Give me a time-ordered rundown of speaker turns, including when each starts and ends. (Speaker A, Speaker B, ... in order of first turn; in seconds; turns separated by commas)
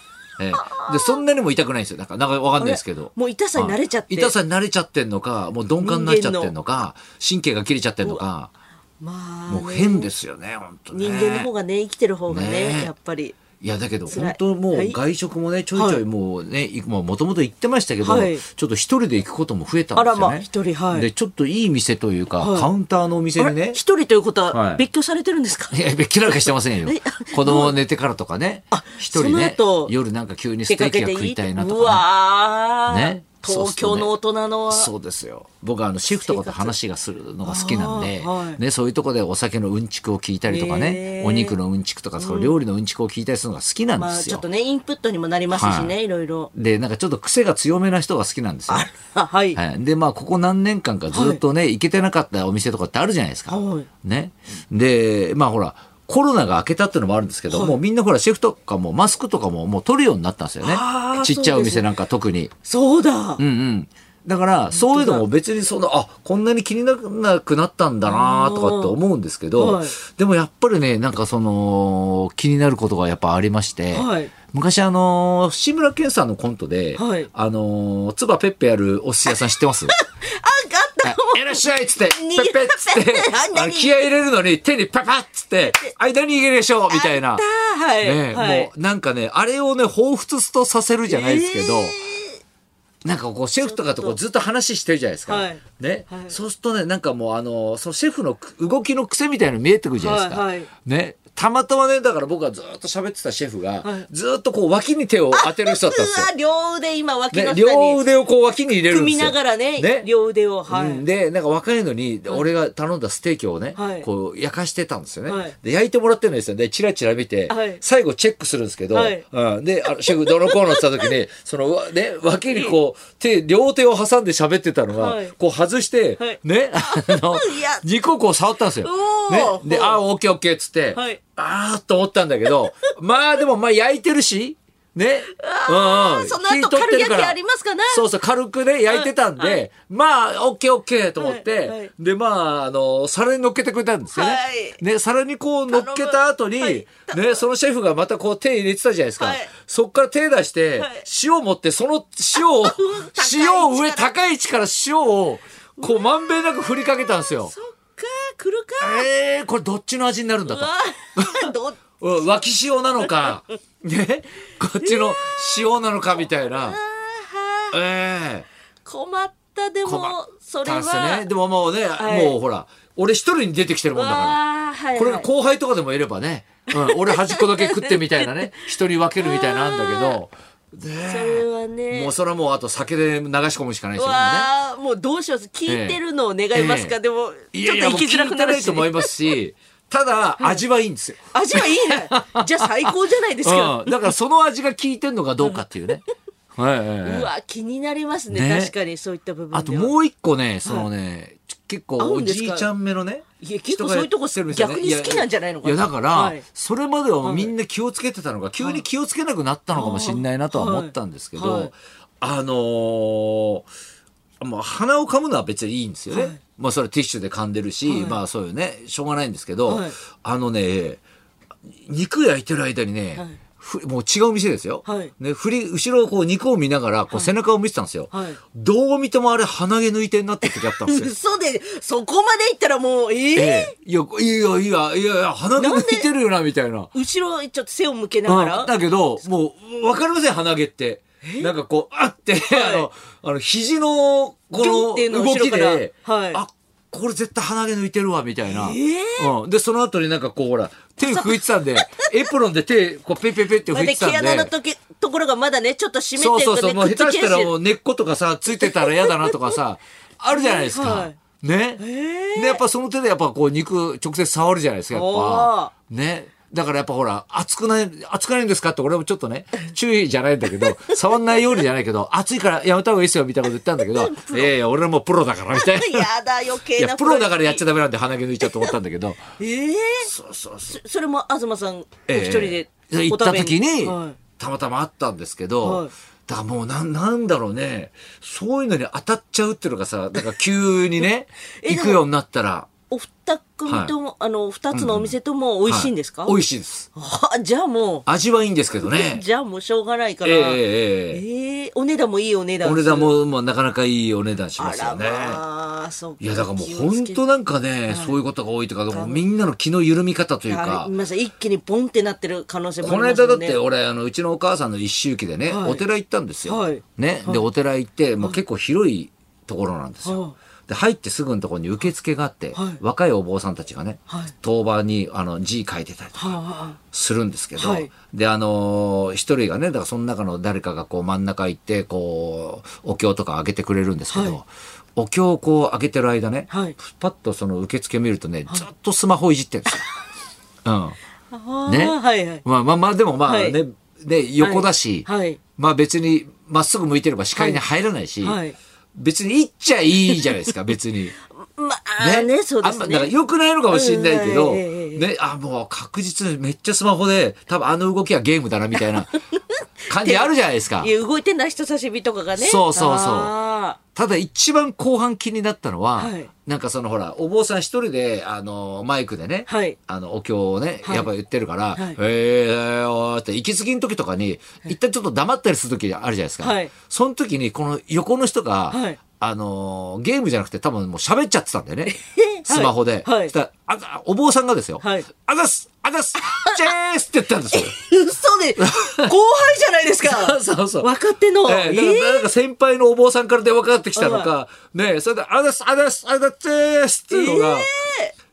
Speaker A: 0.4-8.5, Speaker B: 0.5-1.2, Speaker B: 2.6-4.3, Speaker B: 5.8-6.5, Speaker B: 9.0-10.1, Speaker A: 9.5-11.5, Speaker B: 10.9-13.4, Speaker A: 12.3-12.9, Speaker A: 13.6-23.8, Speaker B: 14.1-15.0, Speaker B: 15.7-16.0, Speaker B: 18.0-18.4, Speaker B: 19.9-21.1, Speaker B: 22.4-22.7, Speaker B: 23.4-25.8, Speaker A: 24.5-24.8, Speaker A: 25.7-32.0, Speaker B: 26.8-27.8, Speaker B: 28.7-29.9, Speaker B: 30.7-34.9, Speaker A: 32.9-34.1, Speaker A: 34.7-44.4, Speaker B: 36.1-36.7, Speaker B: 37.4-38.6, Speaker B: 40.5-41.6, Speaker B: 42.2-42.6, Speaker B: 44.0-46.5, Speaker A: 45.5-45.9, Speaker A: 46.5-48.9, Speaker B: 48.7-49.6, Speaker A: 49.5-62.5, Speaker B: 51.1-51.4, Speaker B: 53.5-53.9, Speaker B: 57.5-57.8, Speaker B: 60.6-61.9, Speaker B: 62.6-63.4, Speaker A: 63.4-79.9, Speaker B: 64.7-65.3, Speaker B: 68.0-69.0, Speaker B: 69.5-70.0, Speaker B: 73.9-74.3, Speaker B: 77.0-77.3, Speaker B: 79.3-84.1, Speaker A: 81.0-87.4, Speaker B: 85.6-85.9, Speaker B: 86.9-88.7, Speaker A: 88.0-92.0, Speaker B: 91.1-92.4, Speaker A: 93.0-106.3, Speaker B: 93.6-94.2, Speaker B: 95.3-96.3, Speaker B: 100.0-100.7, Speaker B: 103.8-104.1, Speaker B: 105.3-108.0, Speaker A: 107.3-110.1, Speaker B: 108.9-111.0, Speaker A: 110.7-137.4, Speaker B: 113.7-114.1, Speaker B: 115.2-115.5, Speaker B: 117.5-117.8, Speaker B: 118.9-119.2, Speaker B: 120.1-121.0, Speaker B: 124.9-125.3, Speaker B: 126.2-127.8, Speaker B: 128.8-130.0, Speaker B: 130.9-131.2, Speaker B: 135.3-138.0, Speaker A: 137.9-157.5, Speaker B: 138.9-139.7, Speaker B: 141.2-141.9, Speaker B: 144.1-144.8, Speaker B: 145.7-147.4, Speaker B: 149.2-149.5, Speaker B: 150.8-151.0, Speaker B: 152.3-154.2, Speaker B: 155.8-159.1, Speaker A: 158.8-161.5, Speaker B: 160.4-162.4, Speaker A: 162.0-166.8, Speaker B: 163.0-163.3, Speaker B: 164.8-167.8, Speaker A: 167.7-168.5, Speaker B: 168.8-171.3, Speaker A: 169.8-174.4, Speaker B: 172.0-172.4, Speaker B: 173.9-175.3, Speaker A: 174.9-184.5, Speaker B: 176.7-178.7, Speaker B: 179.2-180.2, Speaker B: 181.0-182.1, Speaker B: 183.9-189.1, Speaker A: 185.7-186.0, Speaker A: 186.5-186.9, Speaker A: 187.5-196.0, Speaker B: 191.3-194.1, Speaker A: 196.5-197.3, Speaker B: 197.0-199.9, Speaker A: 198.3-198.7, Speaker A: 199.5-213.7, Speaker B: 202.0-202.7, Speaker B: 203.4-206.4, Speaker B: 207.2-207.5, Speaker B: 209.7-211.7, Speaker A: 214.4-221.0, Speaker B: 216.1-216.4, Speaker B: 217.8-218.2, Speaker B: 219.7-219.9, Speaker A: 221.8-231.1, Speaker B: 224.8-225.1, Speaker B: 228.1-228.4, Speaker B: 230.5-233.7, Speaker A: 233.3-236.9, Speaker B: 235.6-236.1, Speaker B: 236.9-238.7, Speaker A: 238.2-254.5, Speaker B: 241.2-241.5, Speaker B: 242.5-242.9, Speaker B: 244.6-246.4, Speaker B: 248.4-249.3, Speaker B: 251.0-252.3, Speaker B: 253.7-257.5, Speaker A: 256.2-261.8, Speaker B: 258.6-259.6, Speaker B: 260.3-261.1, Speaker B: 261.8-262.6, Speaker A: 262.3-276.1, Speaker B: 264.9-265.7, Speaker B: 273.8-274.5, Speaker B: 275.5-277.6, Speaker A: 276.8-279.2, Speaker B: 278.4-278.8, Speaker B: 279.4-280.1, Speaker A: 280.0-280.8, Speaker B: 280.7-284.2, Speaker A: 282.1-292.7, Speaker B: 285.6-285.9, Speaker B: 291.6-292.0, Speaker B: 292.9-296.4, Speaker A: 293.7-293.9, Speaker A: 294.7-295.1, Speaker A: 295.6-296.9, Speaker B: 296.9-298.1, Speaker A: 298.1-299.2, Speaker B: 298.8-303.1, Speaker A: 300.2-301.2, Speaker A: 302.6-305.4, Speaker B: 304.6-307.2, Speaker A: 306.2-310.9, Speaker B: 307.9-308.2, Speaker B: 308.9-309.2, Speaker B: 310.5-313.6, Speaker A: 312.8-339.8, Speaker B: 315.5-315.8, Speaker B: 316.4-317.4, Speaker B: 320.0-320.3, Speaker B: 322.5-322.8, Speaker B: 326.1-326.8, Speaker B: 327.6-327.9, Speaker B: 334.1-334.4, Speaker B: 336.5-336.8, Speaker A: 340.6-341.0, Speaker B: 341.3-342.4, Speaker A: 341.6-348.4, Speaker B: 343.2-343.6, Speaker B: 344.4-345.4, Speaker B: 347.4-347.6, Speaker B: 348.2-348.6, Speaker A: 348.9-351.1, Speaker B: 350.1-350.5, Speaker B: 351.4-353.1, Speaker A: 352.0-359.2, Speaker B: 353.7-355.0, Speaker B: 359.1-363.8, Speaker A: 359.9-360.9, Speaker A: 362.4-363.3, Speaker A: 363.9-387.7, Speaker B: 366.0-366.3, Speaker B: 369.5-369.8, Speaker B: 371.7-372.0, Speaker B: 376.4-376.7, Speaker B: 378.7-379.0, Speaker B: 381.9-383.3, Speaker B: 384.8-385.1, Speaker B: 386.2-386.6, Speaker B: 387.5-392.3, Speaker A: 388.6-389.1, Speaker A: 390.0-390.9, Speaker A: 391.4-397.7, Speaker B: 393.9-394.3, Speaker B: 397.1-398.1